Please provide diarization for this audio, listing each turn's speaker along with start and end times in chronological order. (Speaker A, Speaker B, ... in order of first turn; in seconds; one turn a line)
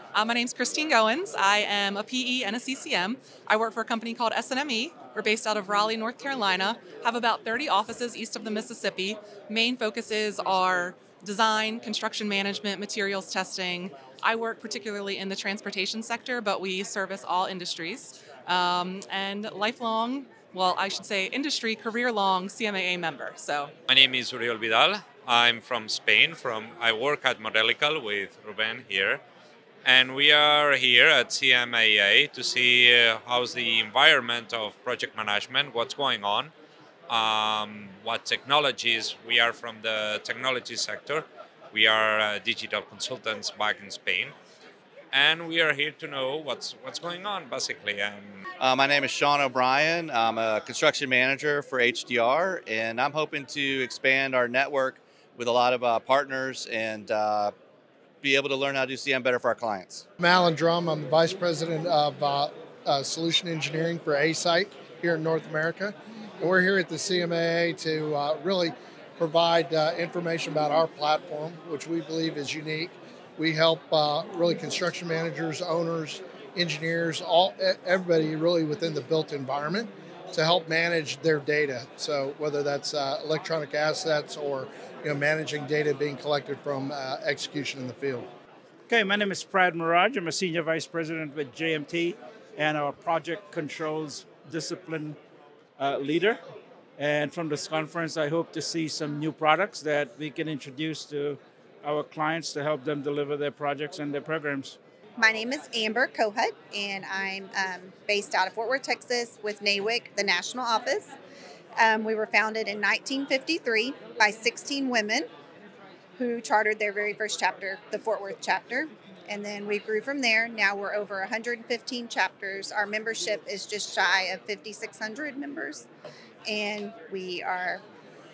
Speaker A: 0.1-23.7
Speaker B: 23.9-29.2
Speaker B: 29.8-36.5
Speaker B: 37.1-44.3
Speaker B: 45.1-48.4
Speaker C: 48.6-57.5
Speaker C: 58.2-60.0
Speaker D: 60.2-88.3
Speaker E: 88.9-95.2
Speaker E: 95.8-96.4
Speaker E: 97.0-104.8
Speaker F: 105.2-111.1
Speaker F: 111.8-115.3
Speaker F: 116.2-125.8
Speaker F: 126.4-127.8